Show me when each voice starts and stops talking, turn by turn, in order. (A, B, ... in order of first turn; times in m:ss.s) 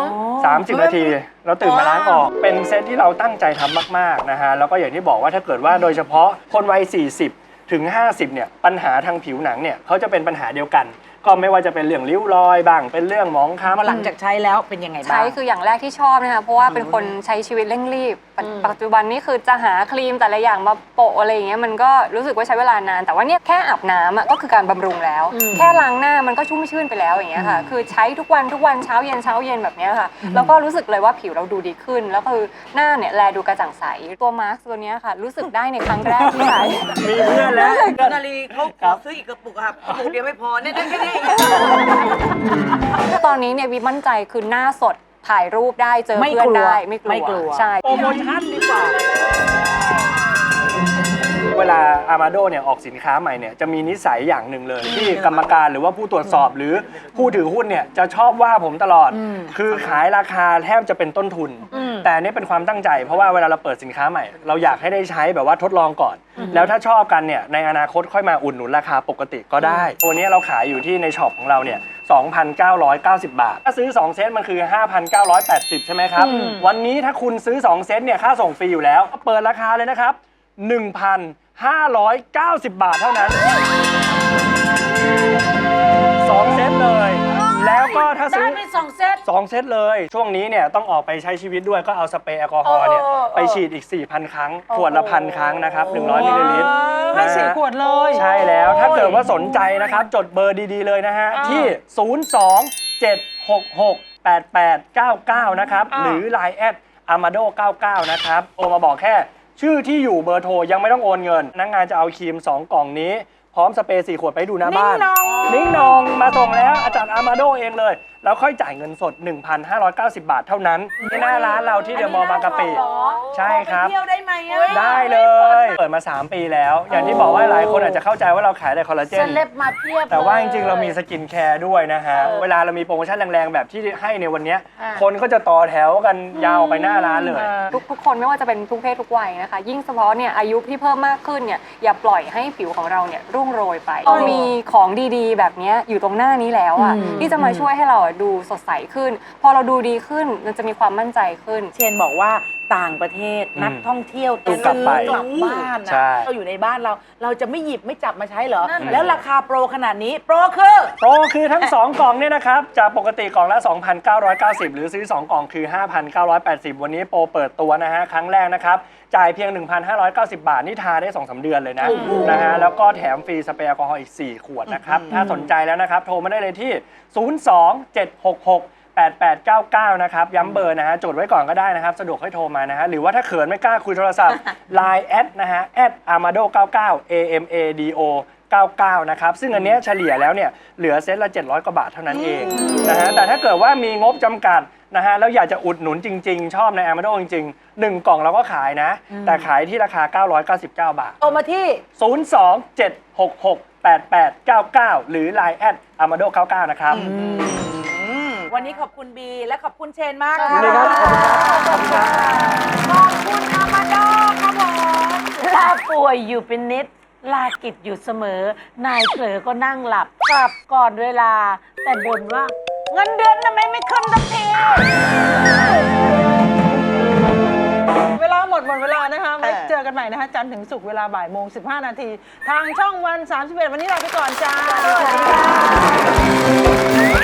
0:00.4-0:14.0 A
0:13.7-0:15.3 B
0:15.0-0:36.8 C
0:25.3-0:25.8 D
0:36.0-0:39.0 A
0:37.2-0:42.1 E
0:43.2-0:48.2 C
0:46.2-0:47.6 B
0:47.8-0:48.9 A
0:51.5-1:23.4 A
1:26.2-1:28.6 A
1:27.4-1:29.2 D
1:29.2-2:03.9 A
1:35.9-1:40.0 F
1:41.3-1:41.7 F
1:45.9-1:46.2 F
2:04.5-2:04.9 B
2:04.7-2:09.4 A
2:07.4-2:07.7 D
2:09.1-2:11.0 D
2:10.1-2:17.6 A
2:12.2-2:12.5 D
2:14.8-2:15.0 D
2:16.4-2:31.7 C
2:17.4-2:17.7 D
2:31.7-2:40.9 B
2:33.6-2:33.9 A
2:34.4-2:35.2 A
2:34.4-2:35.7 E
2:35.8-2:36.3 A
2:38.8-2:39.2 A
2:41.0-3:21.3 A
2:51.8-2:52.6 E
2:54.7-2:55.3 E
3:19.1-3:19.5 B
3:21.2-3:21.8 B
3:22.0-3:27.1 A
3:26.9-3:28.5 E
3:27.0-3:27.7 B
3:28.5-3:35.7 B
3:30.4-3:31.5 D
3:30.5-3:31.3 A
3:32.0-3:32.9 D
3:35.5-3:43.5 D
3:48.1-3:55.4 F
3:49.4-3:49.7 E
3:55.0-3:55.9 B
3:55.2-3:55.6 E